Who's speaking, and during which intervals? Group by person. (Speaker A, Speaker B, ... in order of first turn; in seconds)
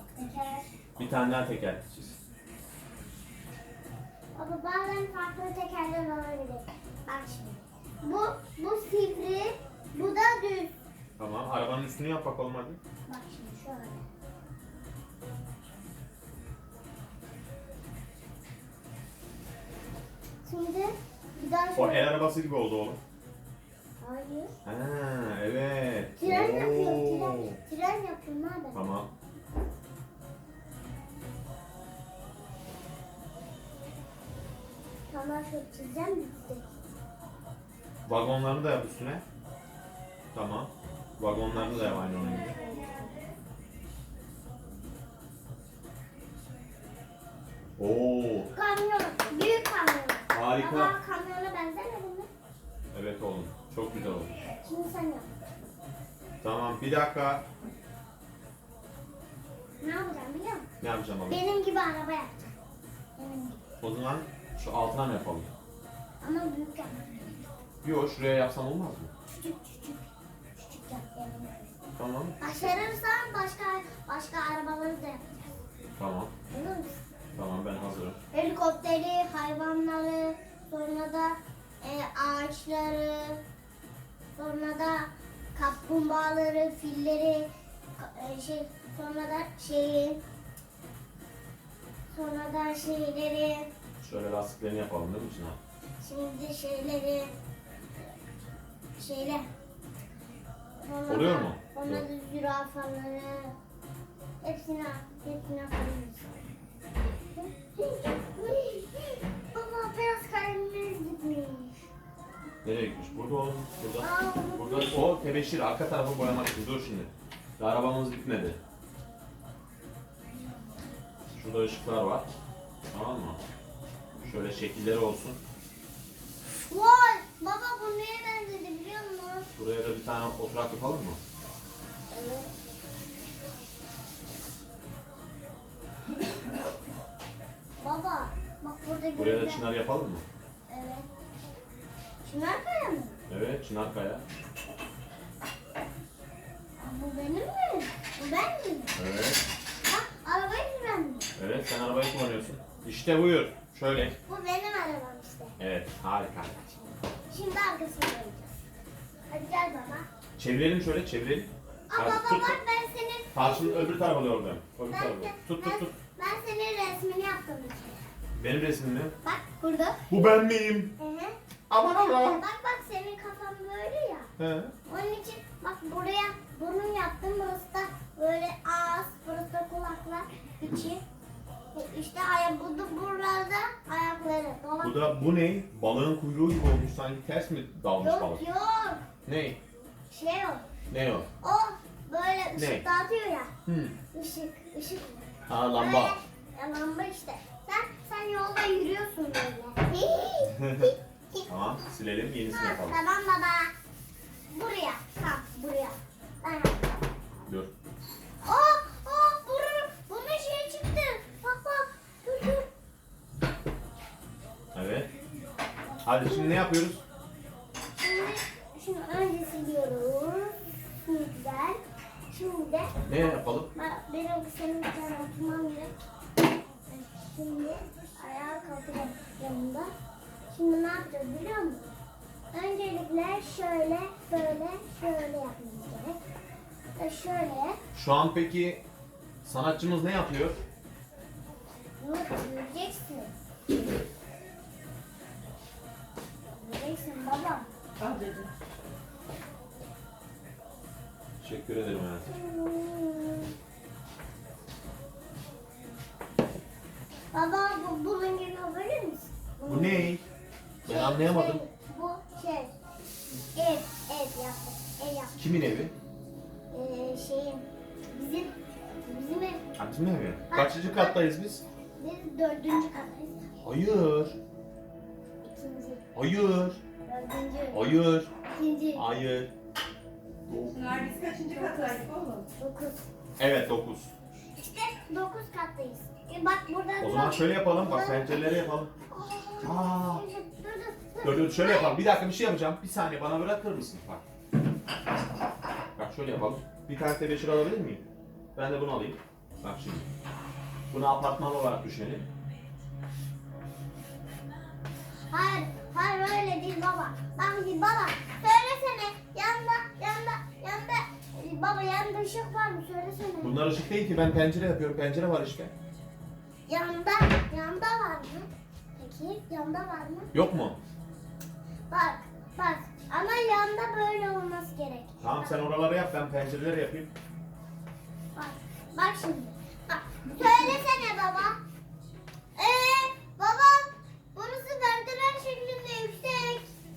Speaker A: 0.1-0.7, 4.3-10.7, 13.1-14.1, 20.4-22.1, 24.0-24.5, 26.2-28.8, 35.1-36.8, 41.5-43.2, 48.5-52.3, 54.6-55.3, 59.8-60.7, 61.3-62.5, 63.2-63.6, 66.2-67.5, 69.3-71.8, 72.4-75.6, 76.5-77.0, 78.3-83.4, 84.4-90.2, 92.1-93.7, 96.0-97.3, 99.0-99.5, 100.8-103.5, 104.4-106.5, 107.3-111.9, 114.0-115.3, 126.7-129.5, 132.1-132.5, 137.8-139.6, 140.7-141.1, 142.2-143.2, 146.8-148.9, 149.8-151.3, 154.2-155.6, 156.6-158.5, 159.3-160.1, 161.9-164.0, 164.9-168.1, 169.2-170.2, 171.0-171.3, 172.0-174.3, 174.8-181.0, 181.7-185.1, 188.0-189.0, 190.1-190.7, 191.4-193.5, 194.1-201.5, 202.5-203.7, 204.5-206.9, 208.4-212.7, 215.9-216.7, 217.9-225.9, 226.9-229.9, 230.5-231.9, 232.5-236.2, 236.9-237.8, 242.0-243.3, 246.5-247.7, 252.2-253.5, 257.3-260.1, 260.8-262.7, 263.5-265.4, 266.7-269.6, 270.5-271.3, 272.0-273.5, 275.4-276.0, 277.1-279.1, 282.5-283.1, 284.5-292.0, 305.3-313.6, 316.7-320.3, 321.9-325.6, 328.3-331.6, 332.6-336.7
Speaker B: 1.0-2.1, 11.2-12.8, 21.8-23.0, 24.6-27.6, 28.7-29.1, 38.0-39.2, 40.3-42.5, 47.8-48.5, 50.3-50.9, 52.9-54.3, 56.4-57.4, 60.8-61.4, 63.8-65.5, 67.8-69.1, 72.0-72.4, 76.0-76.3, 77.3-78.2, 94.0-95.6, 101.1-102.1, 112.6-118.6, 121.3-122.3, 122.9-123.4, 124.2-125.4, 129.6-131.2, 139.2-140.2, 143.3-144.2, 148.9-149.4, 151.3-154.2, 155.6-156.6, 160.4-162.6, 163.3-165.9, 168.3-169.1, 170.1-170.9, 171.7-172.4, 174.4-174.7, 184.8-188.4, 189.2-189.6, 190.9-191.3, 192.6-192.8, 193.7-193.9, 195.5-196.2, 200.4-200.9, 201.5-203.0, 207.4-207.7, 214.7-215.1, 216.0-217.0, 223.1-223.7, 237.9-238.8, 239.4-240.6, 251.4-252.3, 259.6-260.2, 260.8-261.6, 265.4-265.9, 269.8-271.6, 273.6-274.4, 276.1-276.8, 277.7-278.3, 278.9-279.5, 280.5-281.2, 283.4-284.1, 287.0-288.9, 289.6-290.2, 291.2-294.2, 295.9-298.0, 298.6-300.1, 300.9-302.3, 313.4-315.7, 320.3-320.8, 325.2-327.1
Speaker C: 248.0-248.5, 280.7-282.5